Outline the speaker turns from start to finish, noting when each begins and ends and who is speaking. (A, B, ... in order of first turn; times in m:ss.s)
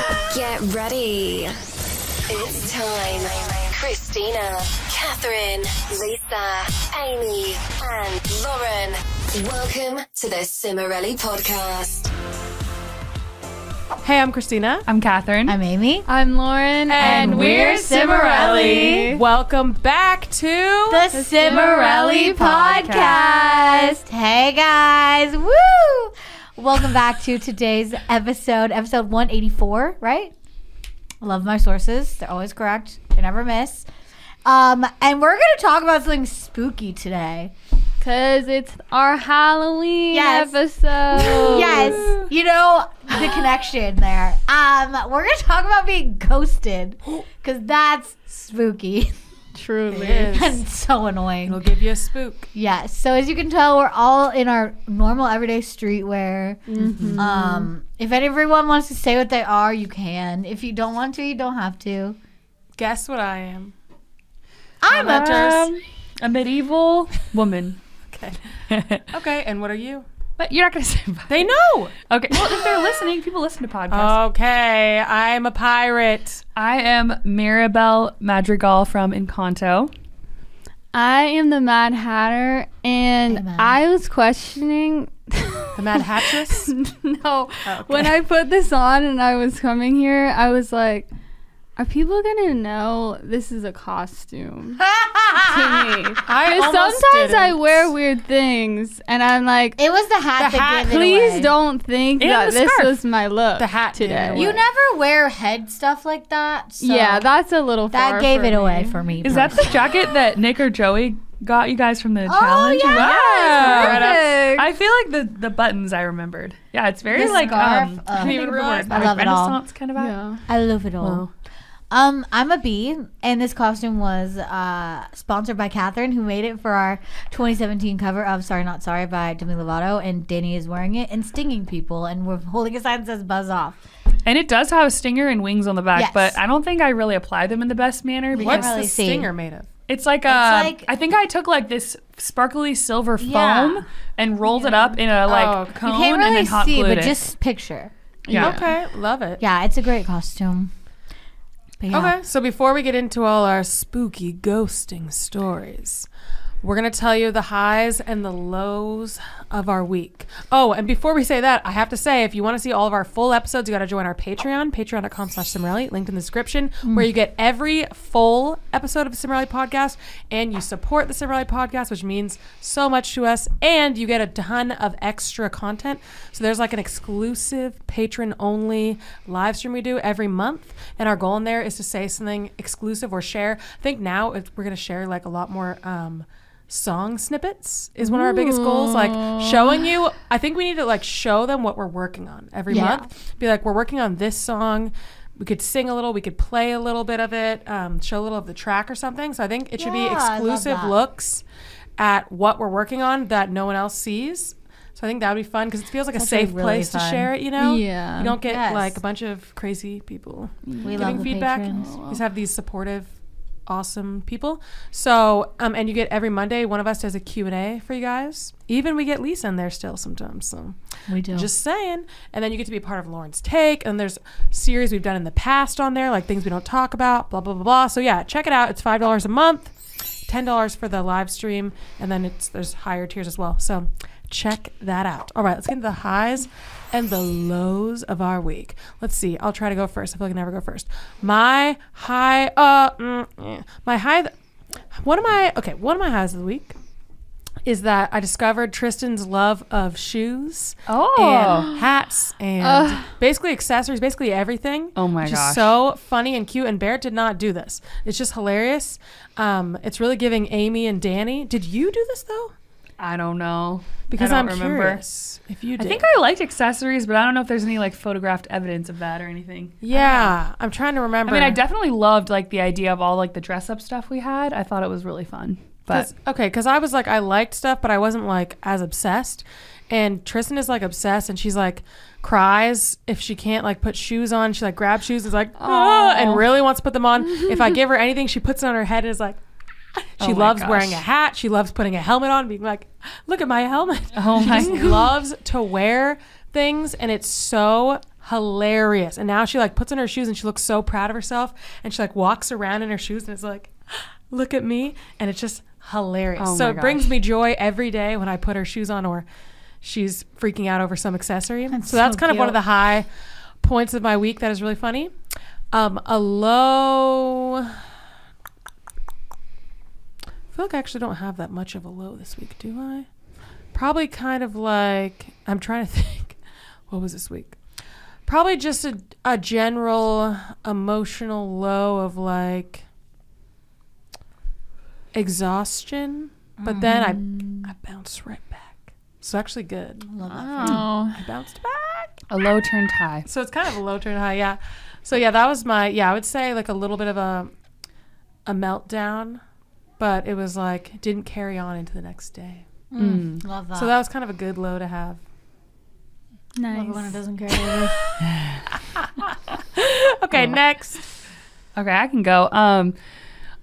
0:00.2-0:01.6 A
0:02.3-0:12.1 A
0:14.0-0:14.8 B
0:14.9-0:15.6 C
0:15.5-0:16.1 D
0:16.1-0:19.2 E
0:16.9-0:17.7 B
0:17.0-0:19.1 D
0:17.0-0:18.9 C
0:18.3-0:21.1 B
0:20.9-0:30.3 D
0:21.1-0:24.0 E
0:22.7-0:23.2 C
0:31.2-0:33.9 D
0:34.4-0:37.5 D
0:38.0-0:42.3 E
0:40.1-0:40.6 D
0:41.1-0:49.2 D
0:41.2-0:41.9 B
0:49.6-0:50.4 E
0:49.9-0:50.6 B
0:50.3-0:51.6 D
0:51.5-0:52.5 B
0:52.5-0:56.6 D
0:56.7-0:57.7 E
0:57.2-1:02.2 D
1:02.8-1:03.7 B
1:04.8-1:05.7 D
1:04.9-1:05.7 B
1:04.9-1:07.8 C
1:08.1-1:08.6 B
1:08.7-1:09.0 C
1:09.1-1:10.1 B
1:10.4-1:11.5 C
1:11.3-1:12.6 B
1:12.0-1:14.2 C
1:13.9-1:16.4 B
1:16.6-1:19.9 C
1:20.9-1:31.1 E
1:23.3-1:23.8 D
1:25.8-1:26.7 B
1:27.7-1:28.1 B
1:31.8-1:34.8 E
1:34.8-1:35.8 D
1:35.4-1:39.8 E
1:36.3-1:37.9 B
1:39.8-1:41.5 D
1:40.4-1:40.9 B
1:40.8-1:44.6 E
1:42.2-1:43.0 C
1:43.6-1:44.6 B
1:44.3-1:47.3 D
1:46.8-1:49.0 E
1:47.9-1:49.9 D
1:49.2-2:00.2 C
1:52.3-1:54.5 D
1:53.0-1:54.6 E
1:53.6-1:54.0 B
1:57.1-1:59.6 D
1:57.2-1:57.6 B
1:58.1-1:59.2 B
2:00.0-2:00.4 E
2:00.5-2:01.3 D
2:01.0-2:01.3 C
2:01.9-2:13.8 D
2:14.3-2:18.7 C
2:16.0-2:16.4 D
2:18.3-2:19.3 D
2:18.4-2:19.7 B
2:19.9-2:27.2 C
2:20.3-2:20.9 D
2:23.2-2:23.9 D
2:24.5-2:27.9 D
2:28.3-2:28.7 E
2:28.3-2:28.6 C
2:28.4-2:29.4 B
2:29.4-2:30.7 D
2:31.8-2:32.2 D
2:31.9-2:36.1 B
2:36.6-3:21.4 B
2:46.8-2:47.1 D
3:08.0-3:09.6 E
3:12.7-3:13.0 D
3:12.7-3:13.1 E
3:19.8-3:21.0 D
3:22.0-3:33.1 B
3:26.1-3:27.3 D
3:27.6-3:28.4 E
3:28.4-3:29.0 D
3:30.7-3:32.2 E
3:30.8-3:31.9 D
3:33.7-3:49.7 B
3:41.1-3:41.5 D
3:50.3-4:04.3 B
4:04.9-4:06.8 B
4:07.6-4:22.5 B
4:10.9-4:11.7 C
4:12.6-4:13.1 E
4:15.0-4:15.7 C
4:23.0-4:25.0 C
4:24.1-4:26.1 B
4:25.8-4:30.4 C
4:29.8-4:31.6 B
4:31.3-4:36.1 C
4:35.9-4:49.4 B
4:45.6-4:46.4 E
4:50.0-5:09.3 B
4:50.2-4:51.0 C
4:54.2-4:55.1 C
5:06.4-5:07.2 C
5:09.8-5:13.1 B
5:11.7-5:12.6 D
5:13.6-5:15.1 B
5:15.7-5:17.8 B
5:20.5-5:23.1 B
5:23.7-5:26.4 B
5:26.9-5:27.6 B
5:28.3-5:32.8 B
5:35.1-5:42.2 B
5:36.6-5:37.7 D
5:40.1-5:40.9 D
5:40.6-5:41.2 E
5:42.3-5:43.3 C
5:43.3-5:47.5 B
5:48.5-5:49.4 B
5:50.0-5:52.7 B
5:52.9-5:53.9 D
5:53.0-5:53.4 C
5:53.7-5:55.2 B
5:56.6-5:57.2 E
5:56.7-5:58.0 D
5:57.6-5:57.9 B
5:58.7-6:01.0 B
6:00.3-6:00.6 C
6:01.8-6:03.0 C